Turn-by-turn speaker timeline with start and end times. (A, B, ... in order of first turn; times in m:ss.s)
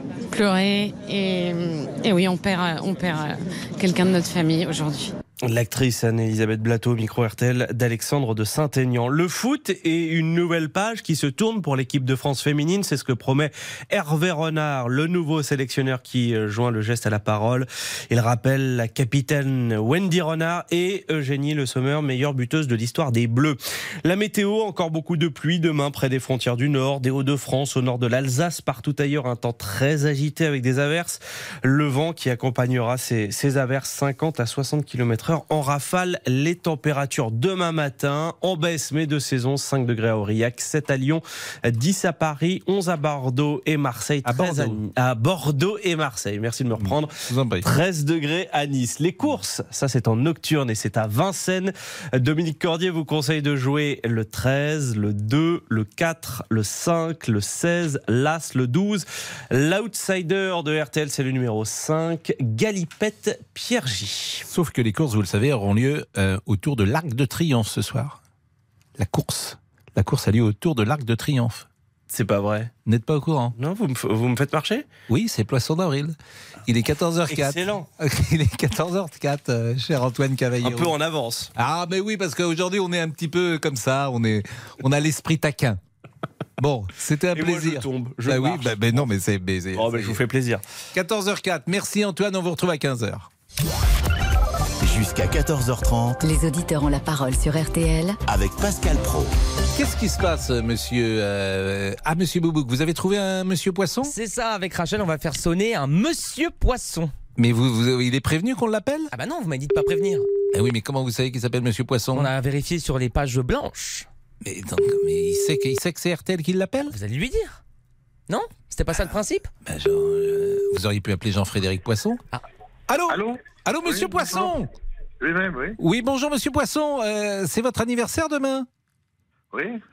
0:00.3-0:05.1 A
0:05.4-0:47.1 B
0:44.2-0:44.8 C
0:46.8-0:47.7 C
0:47.6-1:04.4 B
1:04.5-1:08.2 C
1:09.0-1:11.7 C
1:12.1-1:12.7 B
1:12.8-1:13.6 C
1:13.6-1:14.8 B
1:15.1-1:16.2 C
1:16.7-1:21.0 C
1:17.3-1:17.8 B
1:20.6-1:21.5 B
1:21.6-1:25.8 C
1:26.6-1:30.2 C
1:27.4-1:28.8 B
1:29.8-1:30.6 B
1:30.9-1:33.3 C
1:34.8-1:36.2 D
1:36.2-1:38.2 E
1:38.3-1:39.4 D
1:39.8-1:44.1 C
1:44.0-1:47.1 F
1:47.4-1:49.1 C
1:49.1-1:50.3 F
1:50.5-1:52.3 C
1:52.1-1:54.1 F
1:54.4-1:57.0 C
1:56.9-1:57.6 F
1:58.3-1:59.5 F
1:59.6-2:02.2 C
2:02.9-2:04.7 C
2:03.1-2:04.5 G
2:05.2-2:05.8 G
2:05.8-2:08.7 C
2:09.5-2:09.8 G